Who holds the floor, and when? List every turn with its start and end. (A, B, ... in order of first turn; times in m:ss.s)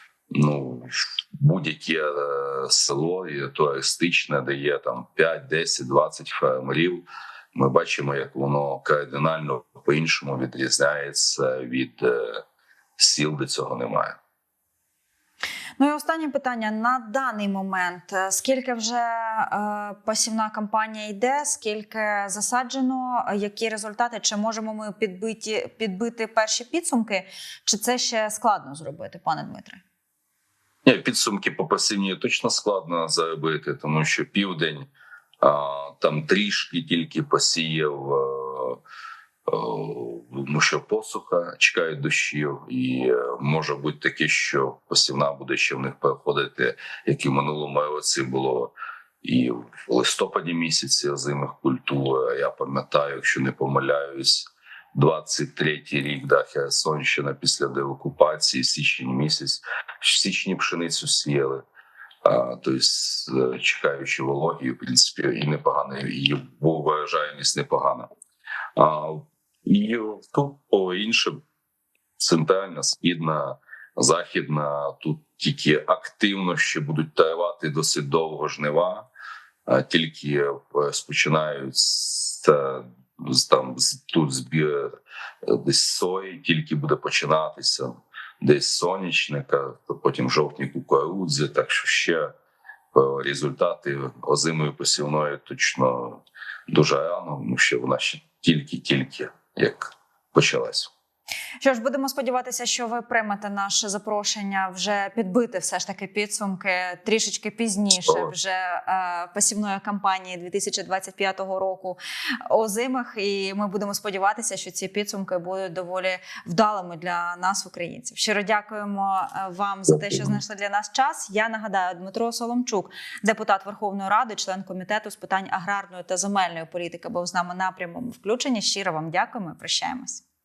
0:00.3-0:12.4 A
0:13.0-0:14.2 A
0:15.8-0:29.8 B
0:30.8-0:34.9 A
0:35.4-0:38.8 A
0:39.5-1:01.6 A
1:02.2-1:08.1 A
1:08.8-1:11.4 A
1:12.2-1:19.1 A
1:19.7-1:24.9 A
1:25.4-1:32.3 A
1:32.9-1:40.9 A
1:41.6-1:52.0 B
1:48.0-1:48.3 A
1:52.5-2:10.2 B
1:59.9-2:00.4 A